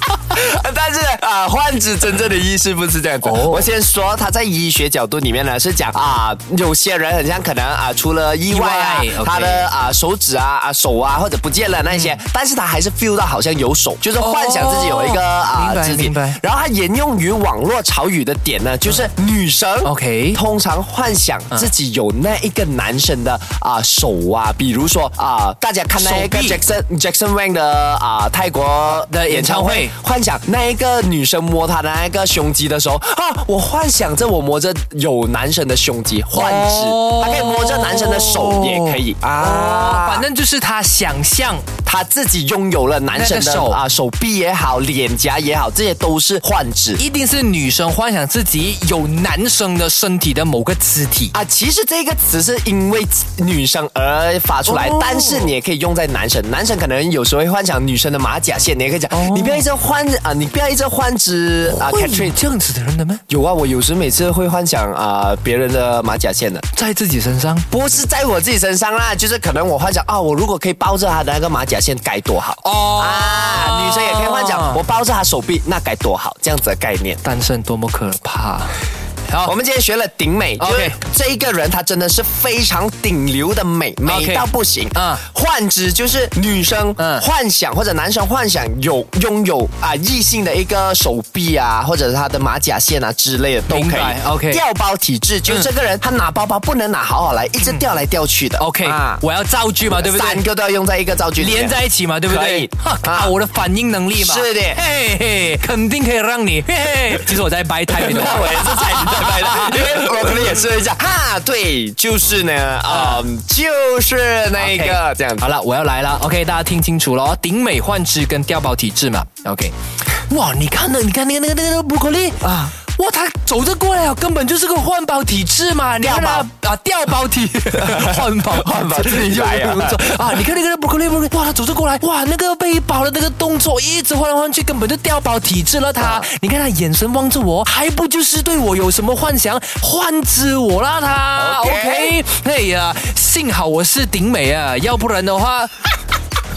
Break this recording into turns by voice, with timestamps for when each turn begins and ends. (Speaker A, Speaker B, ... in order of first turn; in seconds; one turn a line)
Speaker A: 0.3-40.2
Speaker B: 3.2-3.7
Speaker B: 8.5-9.7
Speaker B: 11.9-12.2
Speaker B: 14.2-16.4
Speaker B: 19.8-20.4
Speaker B: 25.9-26.6
Speaker B: 28.9-29.9
Speaker B: 36.3-41.7
Speaker A: 41.8-47.0
Speaker B: 43.1-43.8
Speaker B: 47.0-51.3
Speaker A: 51.3-62.4
Speaker B: 54.6-55.5
Speaker B: 59.1-59.6
Speaker B: 61.6-63.2
Speaker A: 63.3-66.6
Speaker B: 66.7-67.7
Speaker A: 67.7-77.2
Speaker B: 72.6-74.8
Speaker B: 77.2-79.5
Speaker A: 79.4-99.2
Speaker B: 80.6-81.0
Speaker B: 84.0-85.2
Speaker B: 87.0-87.2
Speaker B: 93.7-94.6
Speaker B: 98.6-100.4
Speaker A: 99.9-103.3
Speaker B: 101.4-110.5
Speaker A: 104.1-104.8
Speaker A: 107.9-115.5
Speaker B: 112.9-113.2
Speaker B: 114.6-145.8
Speaker A: 122.4-122.7
Speaker A: 126.0-126.5
Speaker A: 127.7-130.4
Speaker A: 136.0-136.3
Speaker A: 141.3-142.2